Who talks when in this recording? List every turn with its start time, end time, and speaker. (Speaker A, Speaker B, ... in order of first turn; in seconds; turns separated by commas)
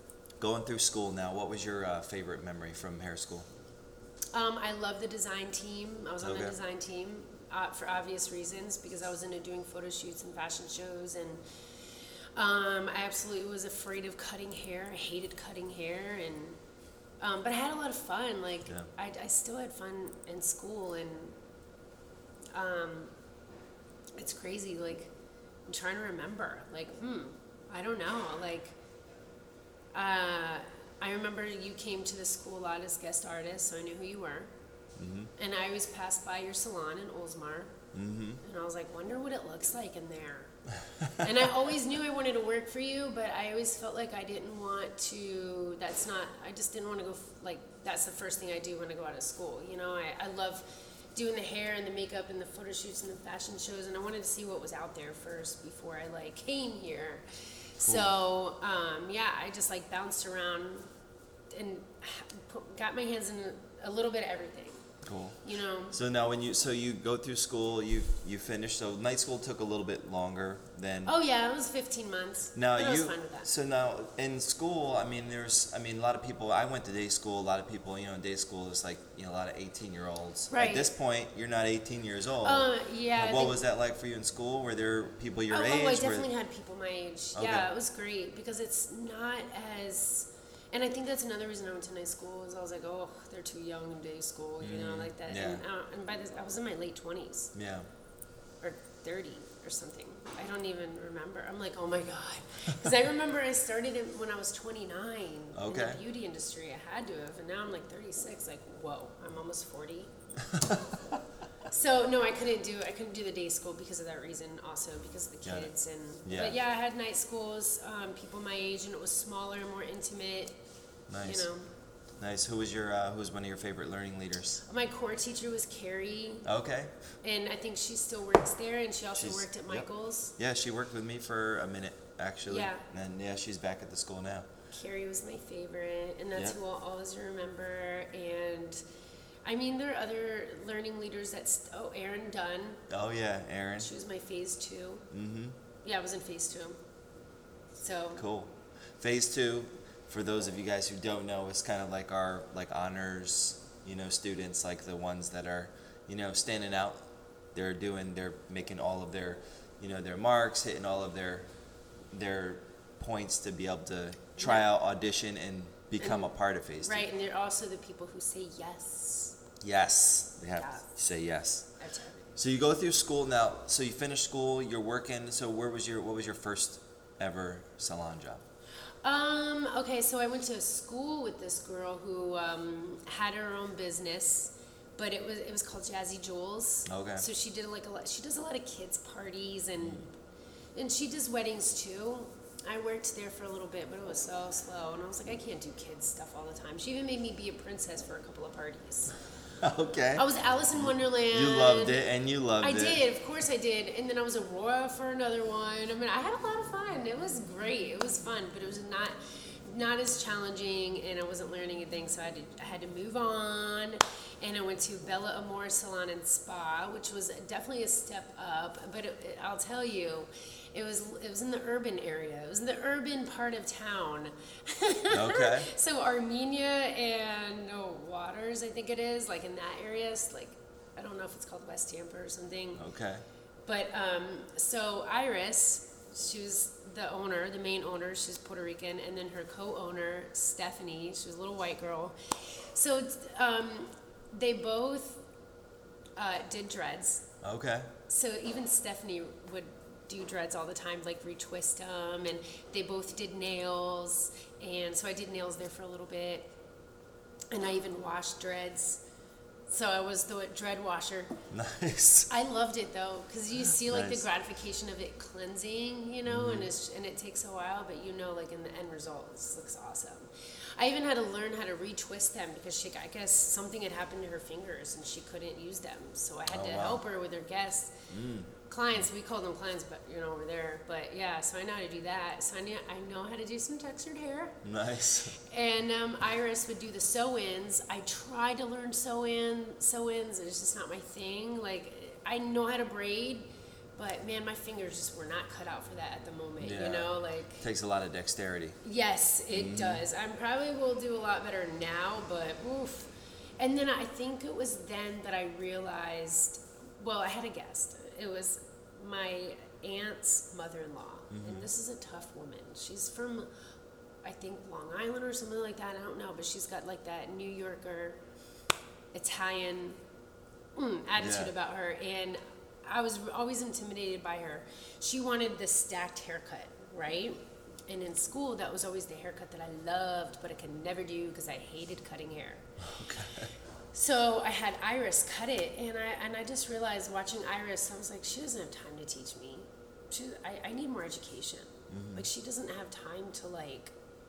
Speaker A: 0.4-3.5, Speaker B: 4.3-11.4, Speaker A: 6.2-6.5, Speaker B: 12.3-16.6, Speaker B: 17.2-21.4, Speaker B: 22.5-23.1, Speaker B: 24.2-25.1, Speaker B: 25.7-28.8, Speaker B: 29.9-34.5, Speaker A: 35.0-35.3, Speaker B: 35.4-37.7, Speaker A: 37.9-38.4, Speaker B: 38.4-40.5, Speaker A: 41.0-41.3, Speaker B: 41.1-57.2, Speaker B: 57.8-60.9, Speaker A: 57.8-58.1, Speaker B: 61.5-64.9, Speaker A: 65.0-65.4, Speaker B: 65.4-66.0, Speaker A: 65.9-71.1, Speaker B: 71.0-73.5, Speaker A: 72.5-86.3, Speaker B: 80.5-80.9, Speaker B: 82.4-83.6, Speaker B: 85.5-97.5, Speaker A: 87.3-87.7, Speaker A: 94.6-95.6, Speaker A: 97.5-97.9, Speaker B: 98.6-110.1, Speaker A: 105.5-106.0, Speaker A: 110.4-110.8, Speaker B: 111.7-120.6, Speaker A: 115.4-115.7, Speaker A: 116.2-116.6, Speaker A: 121.1-121.5, Speaker B: 121.2-121.7, Speaker A: 122.2-124.6, Speaker B: 124.6-126.5, Speaker A: 126.4-126.9, Speaker B: 127.2-130.3, Speaker A: 129.1-134.5, Speaker B: 132.4-132.8, Speaker B: 134.7-138.8, Speaker B: 139.4-142.8, Speaker A: 142.9-143.9, Speaker B: 143.8-145.1, Speaker A: 145.1-145.6, Speaker B: 145.8-146.8, Speaker B: 147.8-148.2, Speaker A: 148.2-157.0, Speaker A: 157.5-161.5, Speaker A: 162.1-167.0, Speaker B: 166.0-166.3, Speaker B: 166.8-169.4, Speaker A: 169.6-171.7, Speaker B: 170.5-170.9, Speaker B: 171.8-172.3, Speaker A: 172.3-178.4, Speaker B: 179.0-190.1, Speaker A: 186.9-187.2, Speaker B: 190.7-199.2, Speaker A: 199.6-200.2, Speaker B: 200.1-202.0, Speaker A: 200.8-203.0, Speaker B: 202.6-232.8, Speaker A: 225.1-225.7, Speaker A: 232.8-233.2, Speaker B: 233.7-245.2, Speaker B: 246.2-247.3, Speaker A: 247.4-247.9, Speaker B: 248.1-256.5, Speaker B: 257.5-259.0, Speaker B: 259.7-261.3, Speaker A: 261.5-262.3, Speaker B: 262.3-278.1, Speaker A: 263.8-264.3, Speaker A: 266.2-266.7, Speaker A: 276.5-277.0, Speaker A: 278.1-278.5, Speaker B: 278.7-284.6, Speaker A: 284.6-285.4, Speaker B: 285.4-297.6, Speaker A: 296.6-298.8, Speaker B: 298.8-313.5, Speaker A: 299.5-300.0, Speaker A: 311.3-311.7, Speaker B: 314.2-318.2, Speaker B: 319.1-320.0, Speaker B: 320.8-332.7, Speaker A: 321.2-321.5, Speaker A: 332.8-333.5, Speaker B: 333.9-343.9, Speaker A: 341.9-342.2